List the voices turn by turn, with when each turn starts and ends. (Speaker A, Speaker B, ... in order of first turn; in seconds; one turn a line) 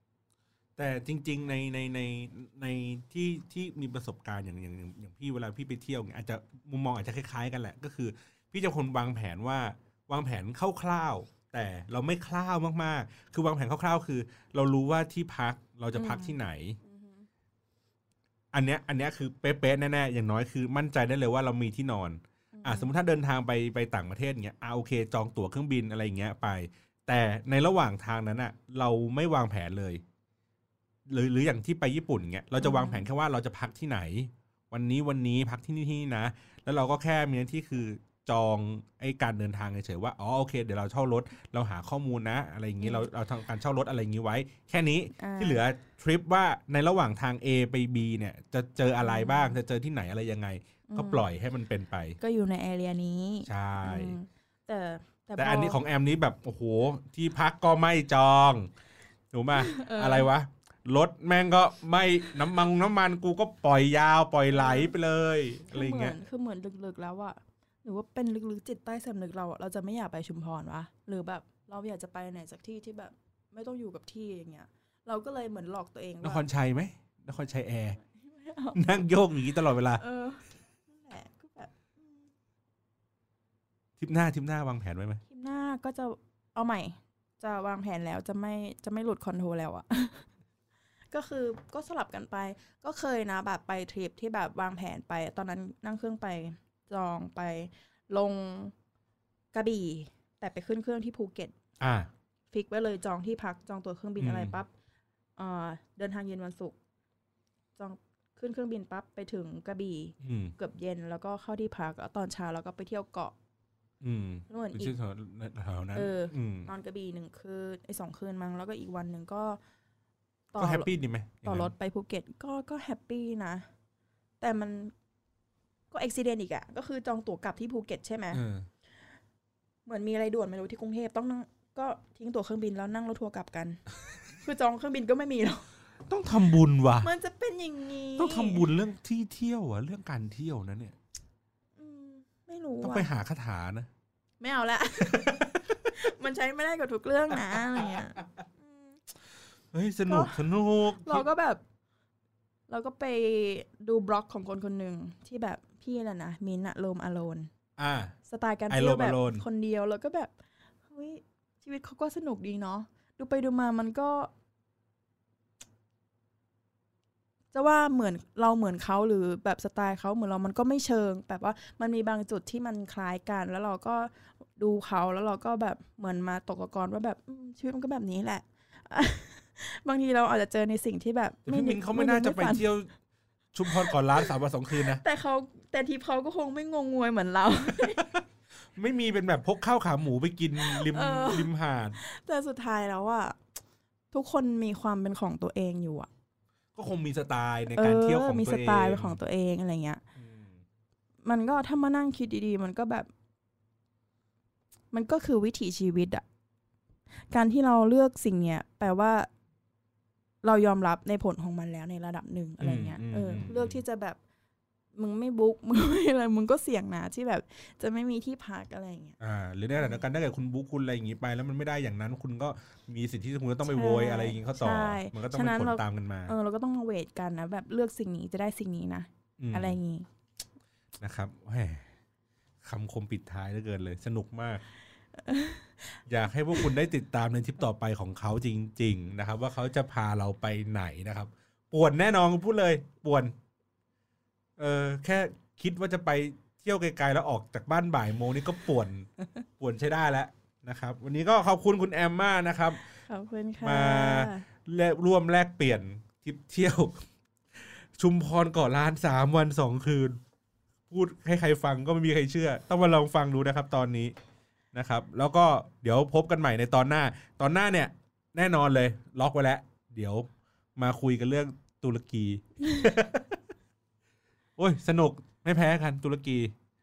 Speaker A: 0.8-16.8
Speaker B: 15.9-17.3
Speaker A: 18.5-30.0
Speaker B: 22.5-22.9
Speaker A: 31.1-52.2
Speaker B: 32.6-33.1
Speaker B: 42.8-43.0
Speaker B: 45.2-45.6
Speaker B: 49.0-49.6
Speaker B: 50.9-51.2
Speaker B: 52.2-55.8
Speaker A: 53.5-54.1
Speaker A: 55.4-58.7
Speaker A: 59.3-66.2
Speaker B: 59.5-60.3
Speaker B: 64.5-64.9
Speaker B: 65.7-76.4
Speaker A: 76.2-78.0
Speaker B: 78.0-79.0
Speaker A: 78.7-80.0
Speaker B: 80.0-82.2
Speaker A: 84.0-85.2
Speaker B: 85.3-90.3
Speaker B: 91.1-98.7
Speaker B: 99.5-101.5
Speaker A: 101.8-102.1
Speaker B: 102.5-104.7
Speaker A: 104.2-104.5
Speaker B: 105.4-106.8
Speaker B: 107.8-113.3
Speaker A: 110.2-110.5
Speaker A: 114.0-116.7
Speaker B: 114.5-114.9
Speaker B: 115.9-119.6
Speaker B: 120.5-123.7
Speaker A: 120.6-121.7
Speaker B: 124.4-124.9
Speaker B: 125.9-128.4
Speaker A: 128.3-128.7
Speaker B: 129.8-135.6
Speaker A: 136.1-137.1
Speaker B: 137.0-138.7
Speaker A: 138.2-140.9
Speaker B: 141.8-143.1
Speaker A: 142.8-143.9
Speaker B: 144.4-145.4
Speaker A: 145.0-145.8
Speaker B: 145.9-149.0
Speaker A: 149.7-151.2
Speaker B: 150.1-151.6
Speaker B: 152.7-157.5
Speaker A: 157.8-158.1
Speaker B: 158.2-160.3
Speaker A: 158.7-159.4
Speaker B: 160.8-164.3
Speaker B: 167.5-182.7
Speaker A: 181.4-182.9
Speaker A: 183.5-185.0
Speaker B: 183.7-184.3
Speaker B: 184.8-188.2
Speaker A: 188.7-191.9
Speaker B: 190.6-193.4
Speaker B: 194.1-196.1
Speaker A: 196.7-199.2
Speaker B: 197.8-200.0
Speaker A: 200.2-200.6
Speaker B: 201.2-203.1
Speaker B: 204.9-206.2
Speaker B: 207.3-209.3
Speaker B: 210.4-214.2
Speaker A: 212.6-213.8
Speaker B: 214.9-219.2
Speaker A: 219.2-226.3
Speaker B: 219.8-220.0
Speaker B: 223.7-230.1
Speaker A: 229.4-229.8
Speaker A: 231.0-231.8
Speaker A: 232.6-234.6
Speaker B: 235.2-236.0
Speaker A: 236.1-243.3
Speaker A: 244.6-249.1
Speaker A: 249.6-252.8
Speaker B: 253.1-254.4
Speaker A: 253.6-257.0
Speaker A: 257.6-260.2
Speaker A: 260.9-264.1
Speaker A: 264.7-273.4
Speaker A: 274.6-276.5